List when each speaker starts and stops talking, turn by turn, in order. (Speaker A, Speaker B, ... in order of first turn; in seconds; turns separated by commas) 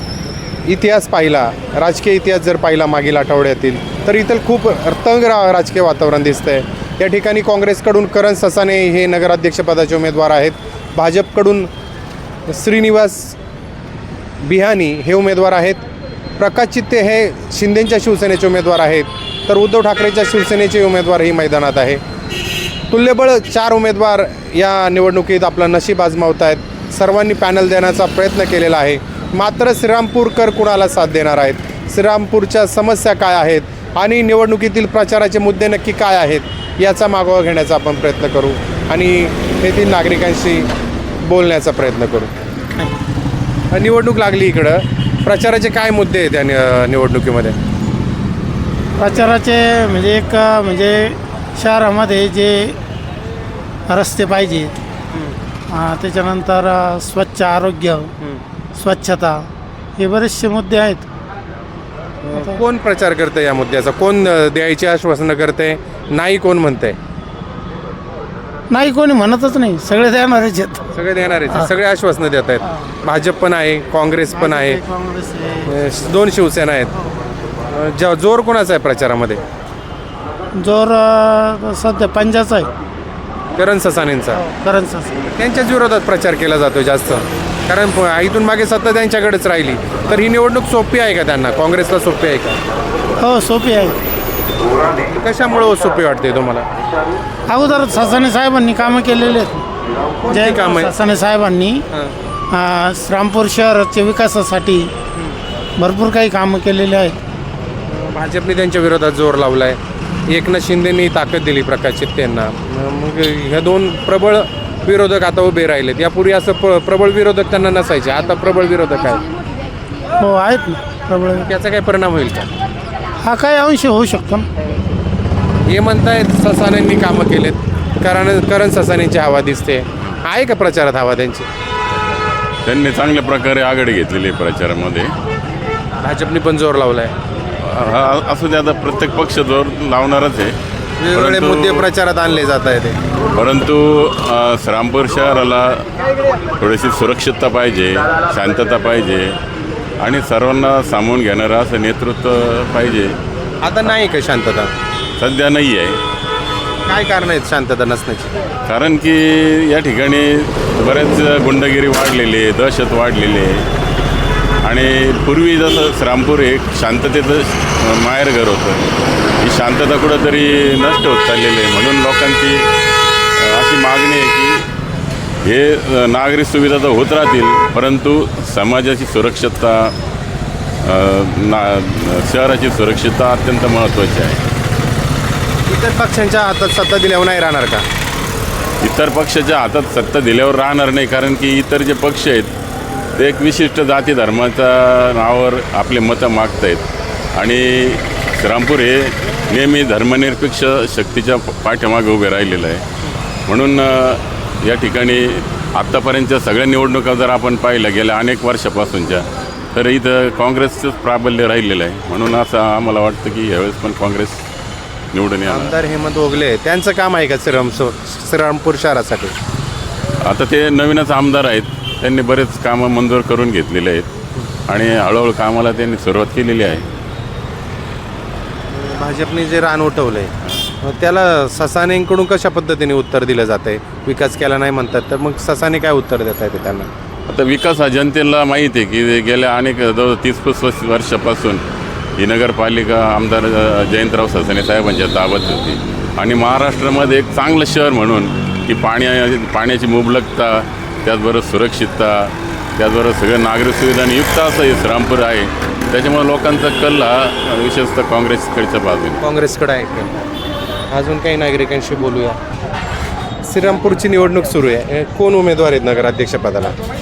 Speaker A: 0.7-11.7, Speaker A: 12.5-13.4, Speaker A: 14.4-15.8, Speaker A: 16.4-22.0, Speaker A: 22.9-40.7, Speaker A: 41.2-42.3, Speaker A: 43.7-47.5, Speaker B: 49.0-52.8, Speaker B: 53.9-54.7, Speaker B: 55.7-58.1, Speaker B: 58.8-59.4, Speaker B: 60.0-61.0, Speaker B: 62.3-62.6, Speaker A: 62.3-67.0, Speaker B: 68.7-70.8, Speaker A: 70.9-74.8, Speaker B: 74.3-75.7, Speaker A: 75.7-76.9, Speaker A: 77.7-79.4, Speaker B: 80.6-82.7, Speaker A: 83.6-84.4, Speaker B: 84.3-85.2, Speaker A: 85.3-92.6, Speaker B: 93.2-94.0, Speaker A: 94.9-96.7, Speaker B: 97.5-99.6, Speaker A: 100.2-100.9, Speaker B: 100.3-101.8, Speaker B: 102.5-104.9, Speaker B: 105.8-107.2, Speaker A: 107.9-119.2, Speaker B: 120.2-121.5, Speaker A: 121.3-122.5, Speaker B: 123.2-124.5, Speaker A: 125.7-131.5, Speaker C: 132.6-135.1, Speaker A: 136.0-137.1, Speaker C: 137.6-140.5, Speaker A: 141.0-143.0, Speaker C: 141.1-141.9, Speaker C: 143.3-145.8, Speaker C: 146.6-149.3, Speaker C: 150.0-153.1, Speaker A: 153.6-154.7, Speaker C: 155.2-156.0, Speaker A: 156.9-158.3, Speaker C: 158.7-163.7, Speaker C: 164.6-168.8, Speaker C: 169.4-172.6, Speaker C: 173.4-174.7, Speaker C: 175.4-179.9, Speaker C: 180.8-184.4, Speaker A: 185.7-187.8, Speaker C: 188.8-192.5, Speaker C: 193.2-196.8, Speaker C: 197.3-202.8, Speaker C: 203.5-214.4, Speaker C: 215.1-215.7, Speaker A: 215.5-219.3, Speaker C: 220.2-224.1, Speaker C: 224.7-226.8, Speaker A: 228.7-236.9, Speaker C: 237.3-241.6, Speaker C: 242.2-259.2, Speaker A: 259.2-260.1, Speaker A: 260.9-262.4, Speaker A: 263.4-266.7